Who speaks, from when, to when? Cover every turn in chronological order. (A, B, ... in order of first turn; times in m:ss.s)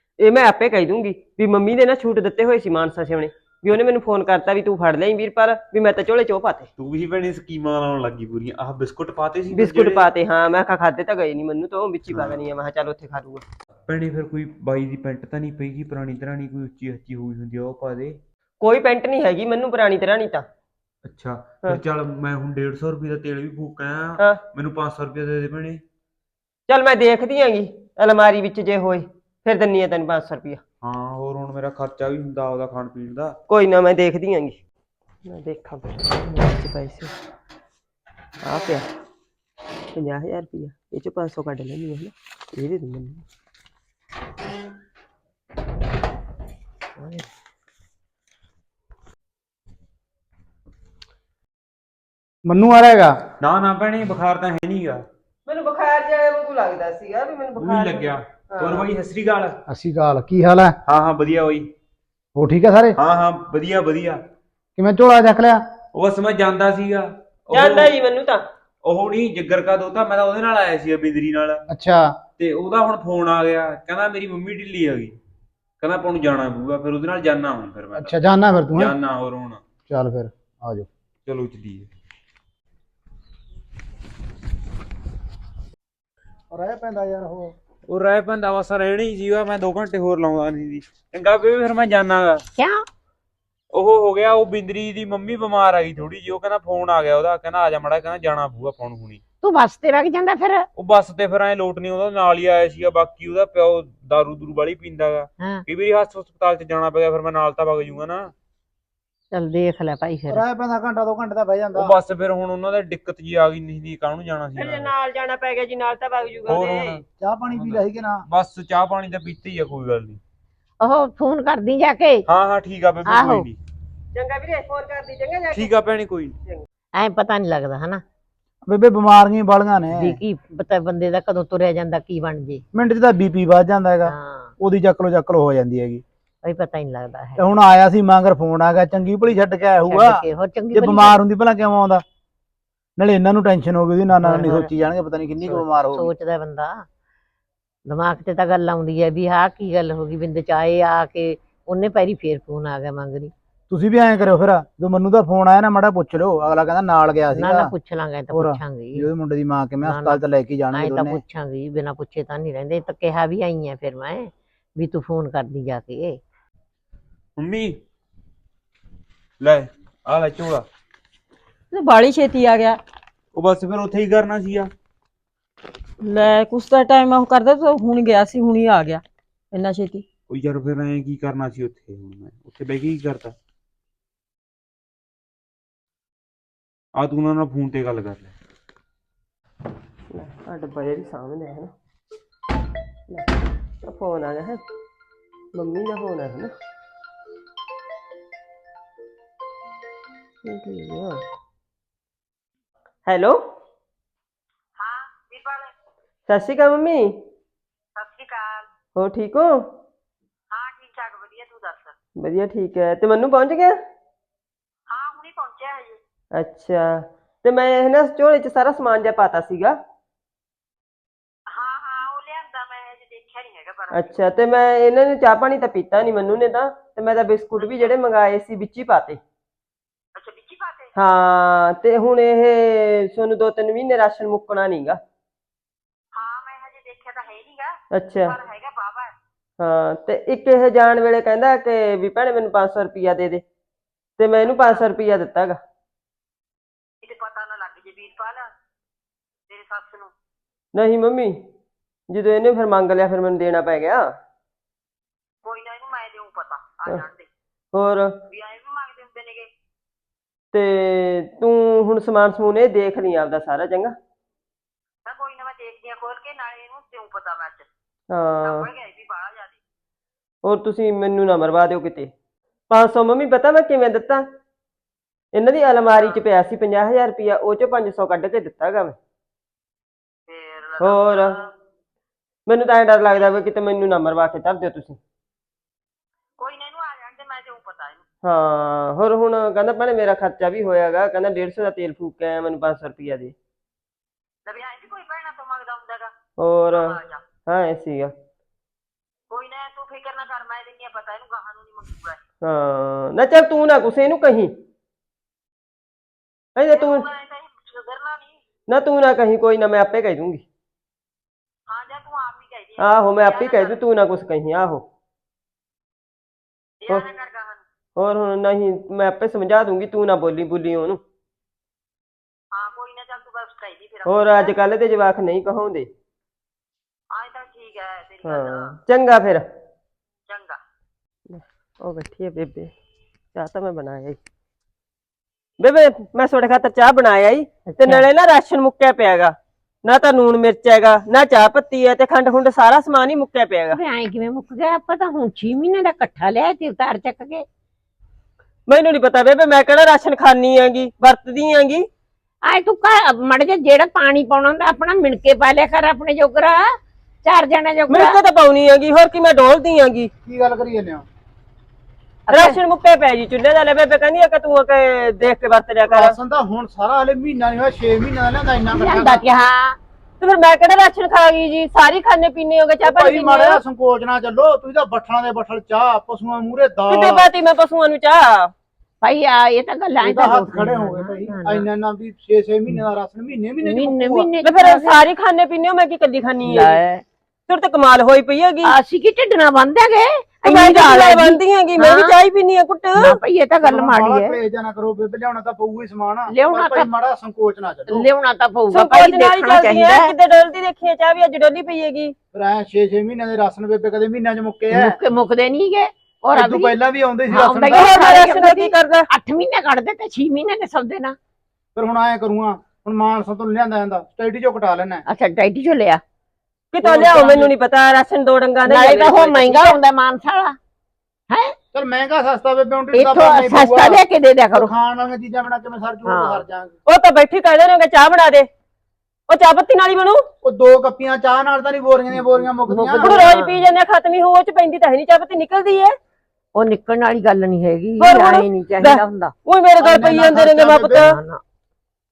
0:00.2-0:06.7 A
0:06.8-0:10.0 B
0:09.5-0:13.4 A
0:13.9-0:18.2 B
0:18.6-0:20.4 A
0:21.0-0:25.8 B
0:26.7-0:30.6 A
0:30.8-0:33.4 B
0:33.5-0:34.6 A
0:35.3-0:37.1 A
0:38.4-0:38.9 A
0:40.0-0:43.2 A
0:52.5-0:53.2 C
0:53.4-0:55.0 B
0:55.5-0:58.9 A
0:57.6-0:59.6 B
0:59.7-1:00.8 C
1:00.9-1:01.7 B
1:02.4-1:03.0 C
1:03.0-1:04.2 B
1:04.8-1:05.6 C
1:05.9-1:07.9 B
1:07.5-1:08.4 A
1:08.8-1:11.6 B
1:11.7-1:12.1 C
1:12.4-1:15.2 B
1:15.8-1:18.2 B
1:18.0-1:19.0 C
1:18.8-1:19.6 B
1:19.9-1:20.9 C
1:21.3-1:21.9 B
1:26.5-1:27.5 C
1:27.9-1:32.4 B
1:32.6-1:32.8 D
1:33.7-1:39.2 B
1:39.4-1:40.7 D
1:40.8-1:48.3 B
1:49.3-1:50.4 D
1:50.3-1:51.9 C
1:51.8-1:54.9 B
1:54.6-1:57.0 A
1:56.5-2:00.2 B
1:57.2-1:58.2 C
2:00.8-2:02.3 D
2:02.3-2:03.6 B
2:03.1-2:03.5 D
2:04.1-2:05.8 A
2:05.5-2:06.4 B
2:07.0-2:08.0 D
2:08.7-2:10.2 C
2:09.9-2:12.6 D
2:12.7-2:16.0 C
2:14.0-2:14.6 D
2:16.4-2:17.5 D
2:17.4-2:20.2 C
2:19.9-2:21.2 D
2:20.7-2:22.0 C
2:23.0-2:26.1 C
2:24.2-2:24.7 D
2:25.4-2:26.8 D
2:27.9-2:33.3 D
2:33.7-2:37.7 C
2:37.3-2:39.1 D
2:38.3-2:41.2 C
2:39.8-2:40.2 D
2:40.7-2:46.2 D
2:47.4-2:47.8 B
2:49.4-2:50.7 B
2:51.7-2:52.8 E
2:53.4-2:54.7 B
2:56.0-3:00.0 E
3:00.3-3:03.4 B
3:07.0-3:08.4 B
3:10.1-3:11.7 A
3:13.8-3:14.6 A
3:15.6-3:16.5 A
3:20.5-3:21.2 A
3:23.1-3:23.4 A
3:24.8-3:25.7 F
3:26.3-3:27.1 A
3:28.0-3:28.7 F
3:29.0-3:29.6 A
3:30.5-3:31.9 F
3:32.2-3:33.8 A
3:34.9-3:36.0 F
3:36.4-3:39.8 A
3:41.5-3:44.2 F
3:43.9-3:49.2 A
3:47.6-3:47.9 F
3:50.2-3:50.9 F
3:51.0-3:55.0 A
3:56.2-3:59.1 F
3:58.0-3:58.4 A
3:59.6-4:03.4 A
4:04.2-4:05.6 A
4:04.5-4:04.8 F
4:07.0-4:08.5 F
4:09.5-4:10.1 F
4:10.8-4:11.4 A
4:12.1-4:14.1 A
4:15.4-4:17.3 F
4:17.7-4:18.1 A
4:18.3-4:19.5 F
4:20.5-4:23.9 A
4:25.1-4:27.7 F
4:28.1-4:28.7 A
4:28.4-4:29.6 F
4:30.4-4:32.1 A
4:32.7-4:34.2 A
4:35.4-4:39.0 A
4:40.3-4:41.5 F
4:40.8-4:41.4 A
4:42.5-4:45.0 A
4:46.4-4:48.0 F
4:48.2-4:53.3 A
4:54.5-4:56.1 F
4:56.4-4:57.0 A
4:56.7-4:57.2 F
4:57.5-4:58.1 A
4:59.3-5:02.2 F
5:02.4-5:04.5 A
5:06.6-5:07.1 A
5:06.7-5:08.4 F
5:08.7-5:10.4 A
5:11.7-5:13.8 F
5:12.8-5:14.8 A
5:16.8-5:17.6 F
5:18.0-5:21.0 A
5:22.5-5:24.6 F
5:24.1-5:25.9 A
5:27.1-5:28.7 F
5:28.2-5:29.4 A
5:30.3-5:30.6 F
5:31.3-5:32.7 A
5:33.4-5:34.2 A
5:35.6-5:39.3 A
5:37.7-5:38.0 D
5:39.9-5:43.8 A
5:43.7-5:47.4 D
5:48.7-5:51.8 A
5:52.5-5:56.7 D
5:57.2-5:58.2 D
5:57.9-6:00.1 A
6:00.3-6:01.1 C
6:02.3-6:02.6 D
6:02.3-6:06.2 A
6:05.8-6:09.2 C
6:08.7-6:09.8 D
6:10.2-6:13.6 A
6:12.8-6:17.3 C
6:16.9-6:18.5 A
6:19.0-6:21.7 D
6:20.0-6:24.3 C
6:23.6-6:25.0 D
6:24.4-6:26.8 A
6:26.4-6:27.0 D
6:27.5-6:28.7 A
6:28.6-6:32.2 D
6:30.4-6:33.2 A
6:33.0-6:34.4 D
6:33.6-6:38.0 C
6:36.3-6:36.9 D
6:37.9-6:40.1 D
6:38.7-6:42.1 A
6:42.3-6:45.0 C
6:44.7-6:46.8 D
6:46.3-6:48.0 C
6:47.3-6:51.2 D
6:47.7-6:49.0 A
6:51.8-6:55.0 C
6:55.1-6:56.0 D
6:56.7-6:59.8 A
6:57.0-6:57.5 D
6:58.6-7:00.6 D
7:01.3-7:01.6 D
7:01.7-7:04.0 C
7:02.9-7:04.7 D
7:04.5-7:06.7 C
7:06.1-7:06.4 D
7:06.9-7:08.5 A
7:09.3-7:10.2 A
7:10.4-7:13.3 C
7:12.1-7:13.6 D
7:13.0-7:16.0 A
7:16.6-7:19.3 D
7:18.0-7:21.2 A
7:19.8-7:21.1 C
7:20.9-7:21.4 D